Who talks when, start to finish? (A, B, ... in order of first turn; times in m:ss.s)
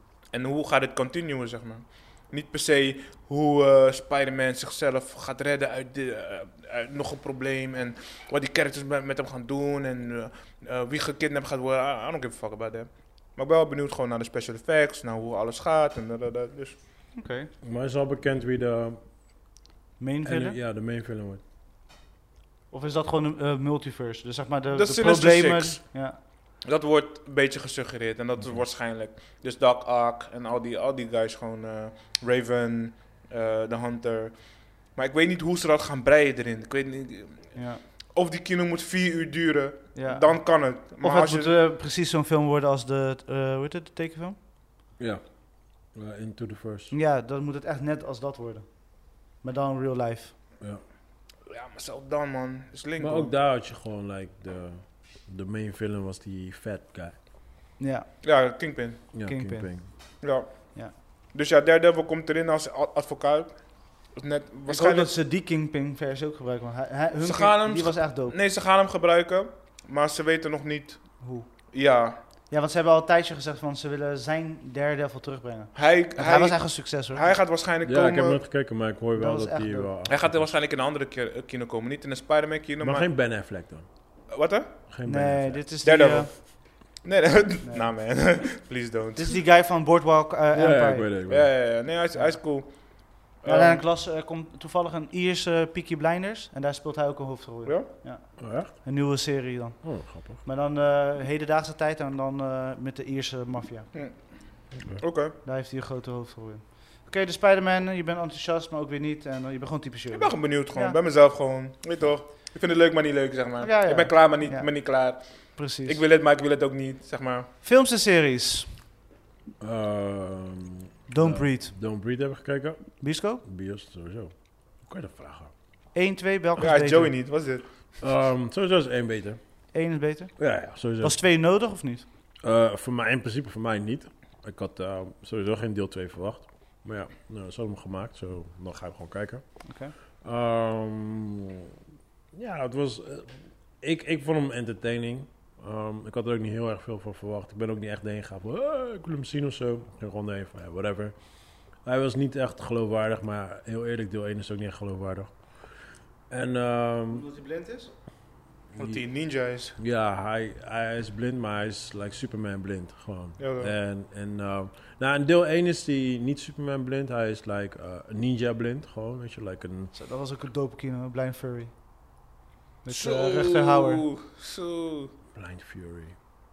0:00.3-0:16.8 A
0:17.2-0:17.5 B
0:17.6-0:19.0 C
0:20.0-0:20.6 B
0:20.2-0:21.4 C
0:22.7-0:26.2 B
0:24.7-0:25.8 A
0:26.6-0:37.6 A
0:37.5-0:37.8 B
0:38.1-0:41.6 A
0:39.9-0:44.4 B
0:45.8-0:46.9 C
0:46.9-0:50.3 B
0:51.5-0:53.3 A
0:53.0-0:57.2 C
0:57.8-0:58.1 B
0:58.2-0:59.1 A
0:59.1-0:59.9 C
0:59.2-0:59.7 B
1:00.2-1:05.1 A
1:04.7-1:08.4 B
1:07.2-1:12.2 A
1:11.2-1:11.5 B
1:12.5-1:17.3 B
1:15.7-1:18.4 A
1:17.8-1:20.5 C
1:19.2-1:19.9 B
1:20.1-1:23.1 A
1:22.8-1:23.8 C
1:24.3-1:24.7 A
1:24.9-1:25.6 C
1:25.0-1:26.3 B
1:25.8-1:29.4 A
1:29.2-1:31.1 B
1:30.5-1:31.5 C
1:31.3-1:33.8 A
1:33.4-1:43.9 B
1:38.4-1:38.8 C
1:39.8-1:40.4 C
1:43.9-1:45.3 A
1:45.4-1:51.0 B
1:50.1-1:57.5 A
1:53.6-1:54.8 B
1:55.5-1:56.0 B
1:57.6-1:58.7 B
1:59.6-2:05.5 C
2:01.1-2:01.7 B
2:03.0-2:03.4 B
2:05.9-2:07.1 B
2:06.6-2:07.9 A
2:08.0-2:09.4 C
2:09.7-2:12.0 B
2:10.4-2:11.2 C
2:12.4-2:19.4 C
2:19.6-2:19.9 B
2:20.2-2:21.7 C
2:22.3-2:31.2 C
2:31.8-2:35.4 C
2:36.3-2:37.2 C
2:37.1-2:37.9 B
2:38.8-2:39.0 C
2:38.8-2:39.8 A
2:39.8-2:49.9 C
2:43.4-2:43.7 A
2:49.9-2:51.7 B
2:52.8-2:54.0 B
2:52.9-2:55.1 A
2:55.3-2:56.1 C